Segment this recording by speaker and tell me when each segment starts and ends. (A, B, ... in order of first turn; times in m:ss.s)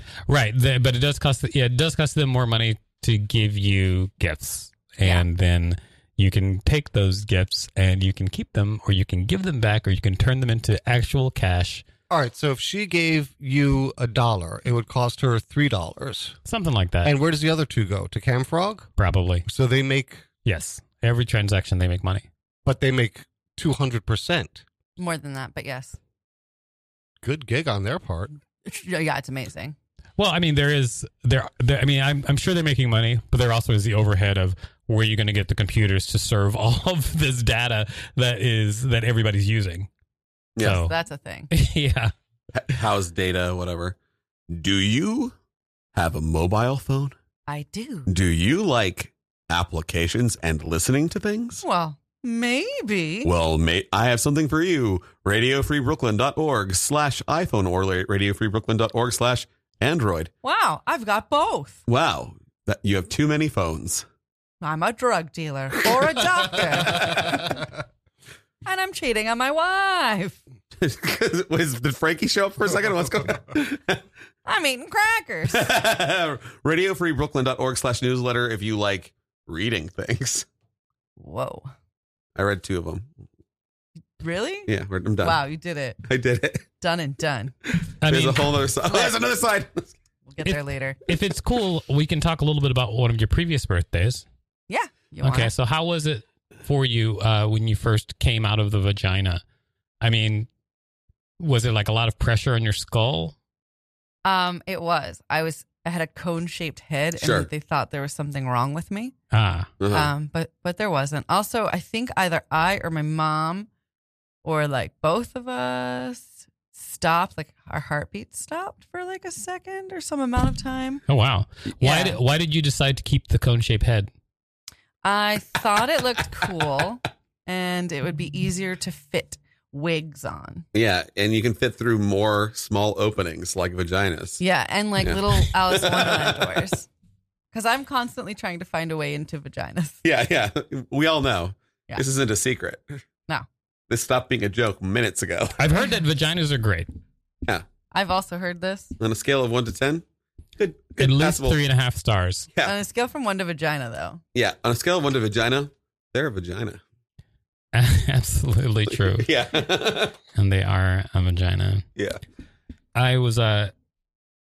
0:00.3-0:11.8 A
0:12.1-0:16.4 B
0:16.4-0:17.1 A
0:17.0-0:18.9 B
0:19.0-0:19.4 A
0:19.4-0:20.2 B
0:20.4-0:22.2 A
0:22.6-0:24.6 B
0:25.0-0:26.0 C
0:27.2-0:28.3 B
0:28.6-0:29.8 C
0:30.2-0:39.9 A
0:40.6-0:40.9 A
0:40.7-0:41.5 C
0:41.5-0:42.1 A
0:42.5-0:44.0 D
0:44.5-0:45.3 D
0:45.9-0:47.1 D
0:47.5-0:48.1 C
0:48.1-0:51.6 D
0:51.6-0:53.3 C
0:53.2-1:00.3 D
1:00.4-1:01.8 C
1:01.9-1:04.0 D
1:04.6-1:07.7 C
1:08.6-1:10.4 C
1:10.8-1:14.0 D
1:14.4-1:15.7 C
1:15.5-1:20.5 D
1:21.2-1:21.7 C
1:22.4-1:23.1 D
1:24.2-1:26.0 C
1:24.7-1:25.4 D
1:26.0-1:26.6 D
1:26.8-1:27.5 C
1:28.0-1:28.7 A
1:28.0-1:29.9 D
1:30.3-1:31.0 C
1:30.4-1:34.2 A
1:34.7-1:35.5 C
1:35.2-1:39.4 A
1:40.0-1:40.5 A
1:41.4-1:43.3 A
1:44.2-1:49.1 C
1:47.2-1:47.5 D
1:49.3-1:49.7 A
1:49.8-1:50.1 D
1:49.9-1:53.7 C
1:54.4-2:01.0 C
2:01.1-2:04.1 A
2:01.8-2:02.2 C
2:05.0-2:10.6 C
2:10.7-2:14.4 D
2:14.4-2:16.9 C
2:15.0-2:16.4 D
2:17.5-2:20.0 C
2:20.0-2:23.0 D
2:23.9-2:25.6 D
2:25.6-2:26.9 A
2:27.9-2:28.9 C
2:29.0-2:30.0 D
2:30.6-2:31.6 D
2:31.0-2:32.5 A
2:32.6-2:34.2 C
2:34.3-2:36.8 D
2:37.7-2:39.3 A
2:38.9-2:40.2 D
2:40.3-2:41.9 A
2:42.0-2:42.2 D
2:42.9-2:43.7 A